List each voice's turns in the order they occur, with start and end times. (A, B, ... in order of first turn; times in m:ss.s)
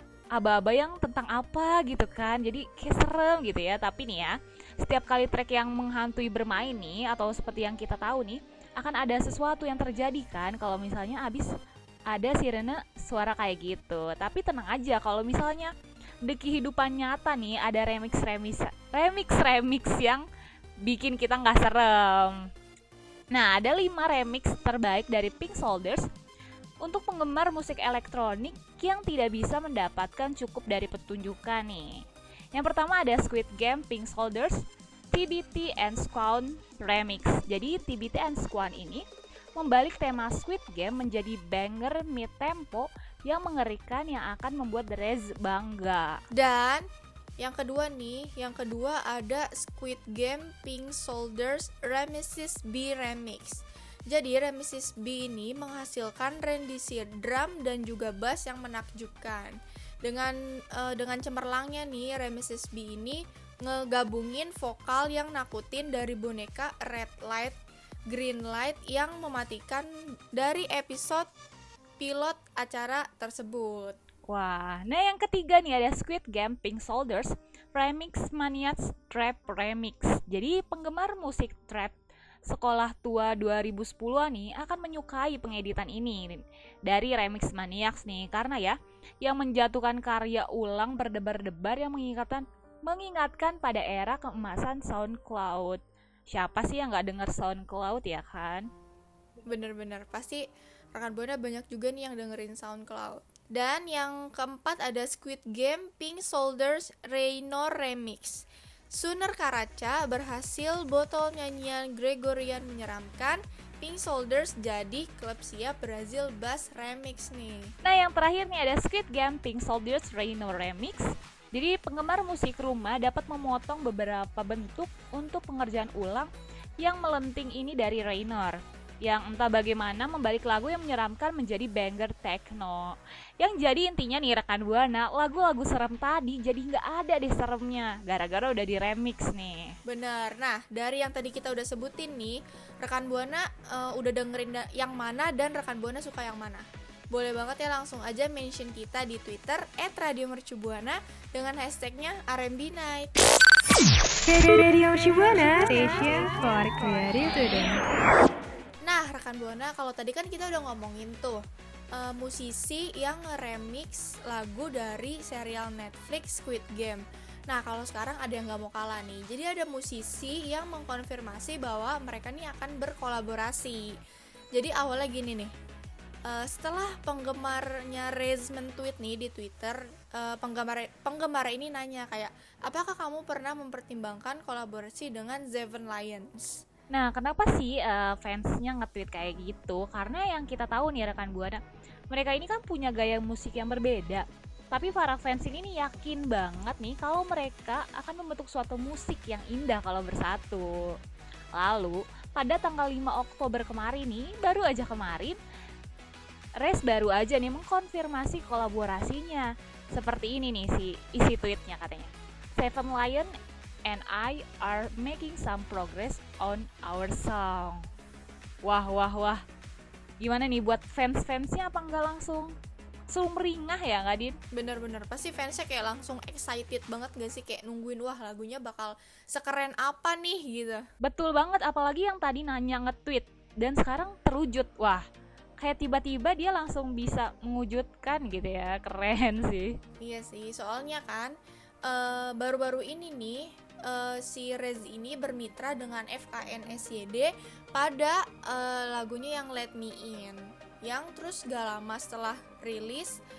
0:00.4-0:11.5 A
0:12.1-0:15.7 A
0:16.2-0:20.2 A
0:20.8-0:22.4 A
0:23.3-0:26.0 A
0:26.8-0:31.9 A
0:32.5-0:34.6 A
0:35.1-0:39.0 A
0:39.6-0:46.2 A
0:46.3-0:46.8 B
0:47.4-1:07.6 B
1:08.1-1:11.3 B
1:12.0-1:14.0 B
1:14.3-1:21.9 A
1:22.5-1:35.8 A
1:36.3-1:38.7 A
1:39.5-1:40.4 B
1:41.0-1:57.7 B
1:57.8-2:19.7 A
2:19.9-2:33.4 B
2:34.3-2:37.8 C
2:38.8-2:41.4 B
2:41.9-2:53.9 B
2:54.6-2:55.5 B
2:56.3-3:06.6 B
3:06.9-3:21.0 A
3:21.6-3:25.4 A
3:26.6-3:33.3 A
3:33.9-3:37.8 A
3:38.6-3:39.4 A
3:40.2-3:42.5 A
3:43.1-3:44.4 A
3:44.5-3:50.8 B
3:51.0-3:55.0 A
3:55.6-3:59.7 A
4:00.0-4:13.2 B